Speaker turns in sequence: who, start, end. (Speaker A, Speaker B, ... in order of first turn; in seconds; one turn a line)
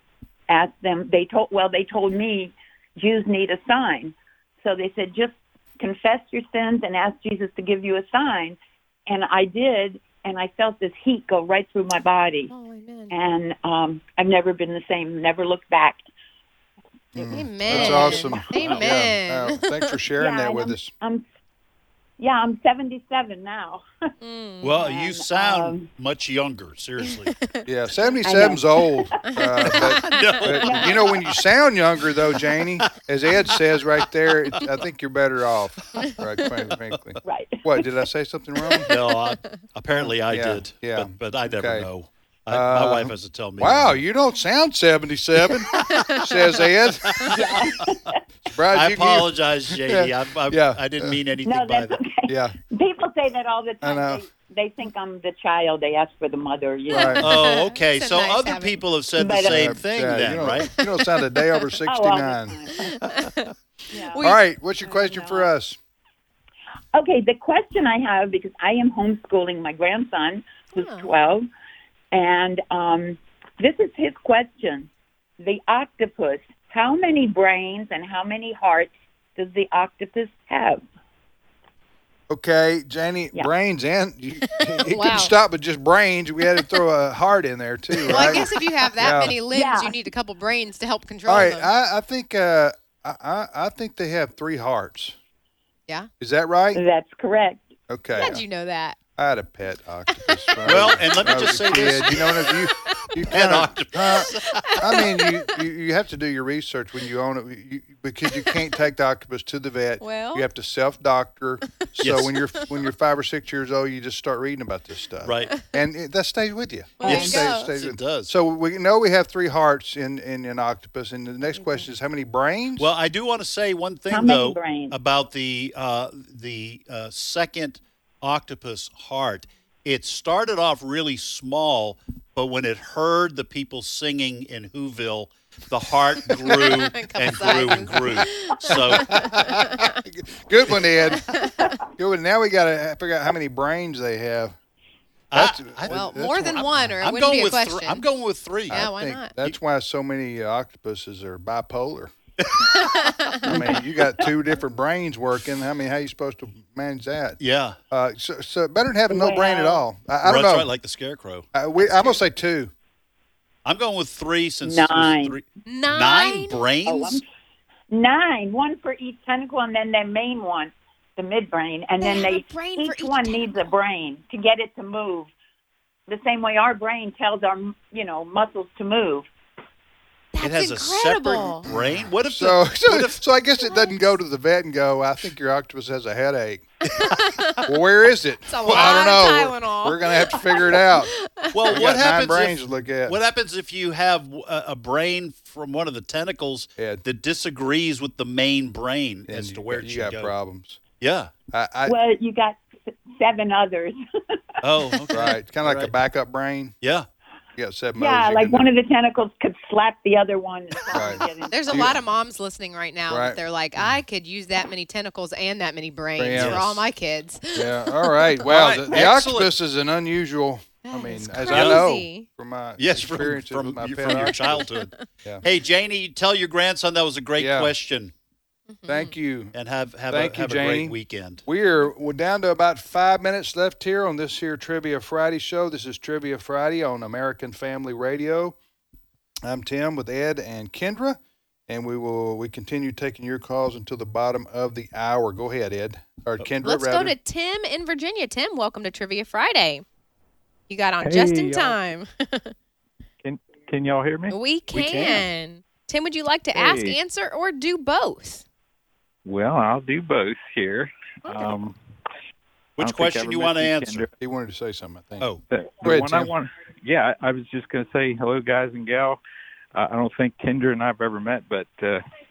Speaker A: 0.5-12.5
Speaker B: 12.5-13.1
Speaker A: 13.1-16.1
Speaker C: 17.1-20.9
Speaker B: 17.2-19.9
Speaker A: 17.7-18.7
Speaker A: 20.2-21.3
Speaker A: 22.2-23.9
Speaker B: 24.2-24.9
Speaker D: 24.6-27.4
Speaker A: 24.8-25.9
Speaker B: 27.1-27.6
Speaker C: 27.7-39.0
Speaker A: 28.2-29.2
Speaker B: 29.6-30.4
Speaker D: 29.8-31.0
Speaker A: 30.7-31.0
Speaker A: 37.2-37.8
Speaker D: 38.9-44.0
Speaker C: 39.9-41.9
Speaker C: 42.5-47.3
Speaker B: 45.7-46.2
Speaker D: 45.7-46.2
Speaker D: 47.1-47.4
Speaker A: 47.3-48.2
Speaker C: 48.5-51.2
Speaker D: 48.7-52.0
Speaker A: 51.4-57.2
Speaker C: 52.3-52.6
Speaker C: 53.8-54.2
Speaker C: 56.9-57.2
Speaker B: 56.9-58.8
Speaker D: 57.2-60.7
Speaker A: 59.2-59.8
Speaker C: 59.4-62.6
Speaker A: 61.9-63.1
Speaker B: 62.9-63.5
Speaker A: 63.9-65.5
Speaker C: 64.2-65.8
Speaker A: 66.9-71.5
Speaker B: 70.7-71.1
Speaker A: 72.1-80.8
Speaker C: 82.3-89.4
Speaker B: 84.6-85.3
Speaker B: 88.0-91.7
Speaker A: 89.5-90.0
Speaker C: 91.3-95.2
Speaker C: 96.2-96.8
Speaker A: 96.7-97.7
Speaker C: 97.9-98.4
Speaker B: 98.2-99.0
Speaker C: 99.2-122.9
Speaker B: 100.2-100.4
Speaker D: 100.7-102.6
Speaker D: 103.3-105.0
Speaker B: 104.5-105.2
Speaker B: 110.0-110.5
Speaker D: 112.0-112.3
Speaker D: 115.2-115.5
Speaker B: 117.0-117.7
Speaker D: 117.0-118.3
Speaker D: 122.8-139.5
Speaker A: 124.1-125.0
Speaker B: 136.5-140.0
Speaker C: 138.7-144.6
Speaker B: 141.1-141.5
Speaker D: 145.3-148.8
Speaker C: 145.3-146.9
Speaker B: 145.9-148.0
Speaker C: 148.7-152.1
Speaker B: 148.7-149.3
Speaker D: 152.4-153.5
Speaker B: 152.7-153.6
Speaker C: 153.4-157.4
Speaker D: 157.4-157.8
Speaker C: 157.9-160.7
Speaker A: 159.1-159.8
Speaker D: 160.2-161.5
Speaker C: 161.5-162.7
Speaker D: 163.7-167.2
Speaker A: 164.6-165.4
Speaker B: 165.7-166.6
Speaker A: 166.9-167.3
Speaker A: 167.9-175.3
Speaker B: 172.0-173.7
Speaker A: 176.1-179.3
Speaker B: 180.3-181.7
Speaker D: 180.4-183.2
Speaker C: 181.7-186.7
Speaker B: 186.9-187.7
Speaker C: 187.7-191.1
Speaker B: 188.5-191.7
Speaker D: 191.5-200.3
Speaker C: 191.7-193.2
Speaker C: 196.8-197.0
Speaker C: 199.3-200.8
Speaker D: 201.0-201.3
Speaker C: 201.5-201.9
Speaker A: 201.9-204.4
Speaker D: 204.6-205.9
Speaker C: 205.1-206.8
Speaker D: 206.8-207.1
Speaker C: 207.6-208.7
Speaker A: 208.0-211.9
Speaker C: 210.9-211.9
Speaker B: 211.5-218.3
Speaker C: 213.1-213.4
Speaker C: 216.2-216.7
Speaker D: 216.3-216.8
Speaker C: 217.6-224.7
Speaker D: 218.5-219.5
Speaker B: 220.8-222.3
Speaker D: 221.5-221.9
Speaker D: 222.8-228.1
Speaker B: 224.1-225.0
Speaker C: 227.4-227.7
Speaker B: 228.7-229.1
Speaker C: 228.9-229.5
Speaker D: 229.5-231.4
Speaker C: 230.1-238.6
Speaker C: 239.4-247.2
Speaker B: 246.6-249.8
Speaker B: 250.7-252.5
Speaker E: 251.0-251.8
Speaker E: 253.2-254.4
Speaker B: 254.3-258.4
Speaker D: 254.7-255.3
Speaker E: 256.5-257.0
Speaker E: 259.2-261.8
Speaker B: 261.2-261.6
Speaker D: 262.8-264.1
Speaker E: 262.8-264.1
Speaker C: 264.2-265.3
Speaker E: 265.5-269.2
Speaker C: 265.8-266.3
Speaker E: 269.7-272.0